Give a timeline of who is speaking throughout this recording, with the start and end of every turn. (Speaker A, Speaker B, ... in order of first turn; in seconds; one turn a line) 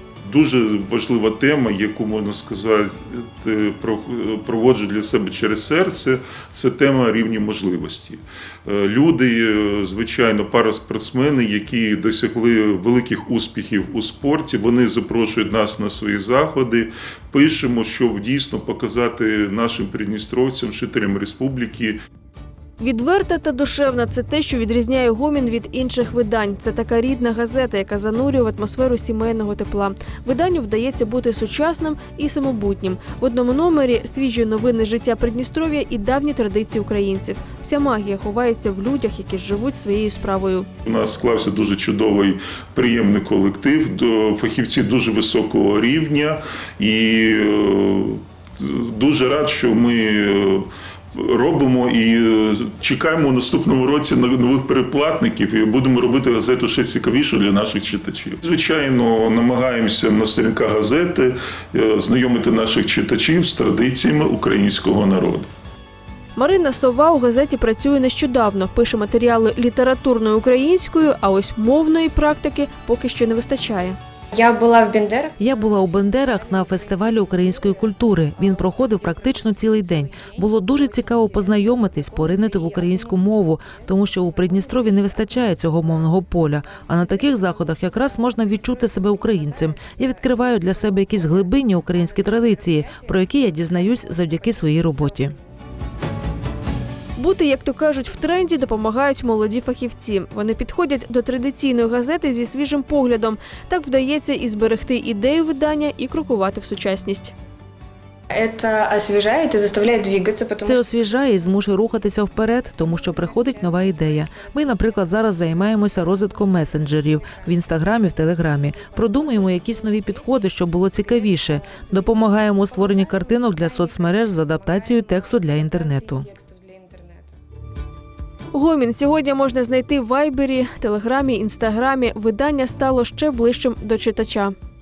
Speaker A: 0.2-22.0
Speaker B: 22.8-40.7
Speaker A: 40.9-65.5
Speaker B: 66.4-74.0
Speaker C: 74.3-75.4
Speaker D: 75.4-95.3
Speaker B: 97.2-107.3
Speaker C: 108.3-110.8
Speaker D: 110.6-126.3
Speaker B: 128.5-134.5